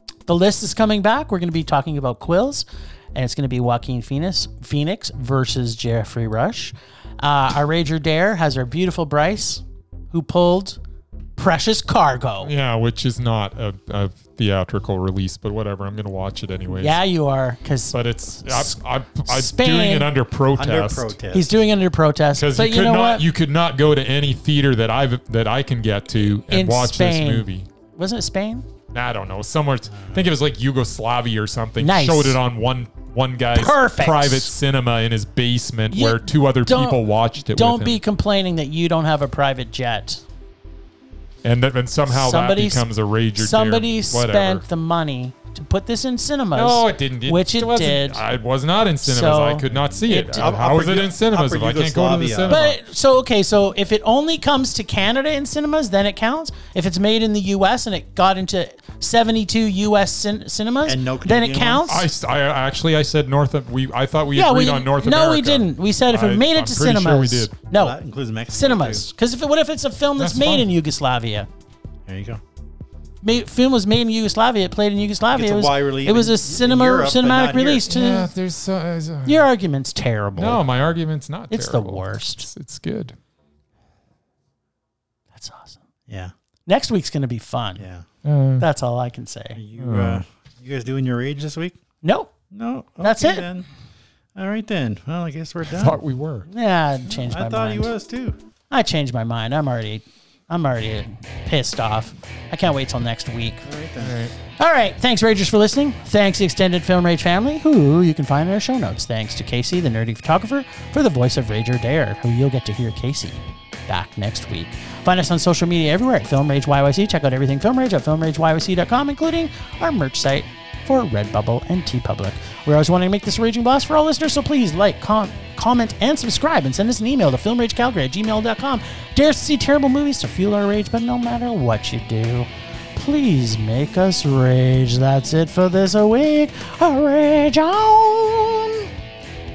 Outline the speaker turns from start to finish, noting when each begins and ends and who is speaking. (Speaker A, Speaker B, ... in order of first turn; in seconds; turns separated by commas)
Speaker A: 0.2-10.8, Speaker A: 11.3-12.5, Speaker B: 12.4-16.9, Speaker A: 16.7-20.1, Speaker B: 17.9-21.1, Speaker C: 20.6-21.6, Speaker A: 21.3-23.2, Speaker B: 22.3-27.7, Speaker A: 26.2-28.7, Speaker B: 28.9-38.0, Speaker C: 29.9-30.3, Speaker A: 31.8-32.4, Speaker A: 33.5-34.5, Speaker A: 35.9-37.0, Speaker A: 37.5-40.2, Speaker B: 41.4-44.6, Speaker A: 42.1-48.2, Speaker B: 46.5-52.8, Speaker A: 49.0-50.5, Speaker C: 50.3-52.6, Speaker A: 52.5-62.0, Speaker C: 60.8-62.0, Speaker B: 61.9-67.5, Speaker A: 64.3-68.0, Speaker C: 67.7-69.1, Speaker A: 68.5-71.5, Speaker B: 70.2-70.7, Speaker C: 72.1-72.4, Speaker A: 73.2-78.3, Speaker C: 75.3-77.9, Speaker B: 77.9-79.5, Speaker A: 79.2-80.6, Speaker B: 80.4-83.1, Speaker A: 81.5-82.5, Speaker A: 85.3-85.8, Speaker C: 86.1-86.3, Speaker A: 86.7-87.8, Speaker C: 87.8-88.0, Speaker B: 88.2-88.7, Speaker A: 88.6-89.6, Speaker C: 89.5-91.8, Speaker B: 89.8-90.2, Speaker A: 92.0-92.3, Speaker C: 92.5-93.7, Speaker A: 93.0-93.5, Speaker C: 94.3-96.0, Speaker B: 95.7-96.5, Speaker A: 96.5-97.9, Speaker C: 97.1-98.4, Speaker A: 98.7-103.7, Speaker C: 103.7-104.2, Speaker B: 104.0-104.3, Speaker A: 104.6-138.9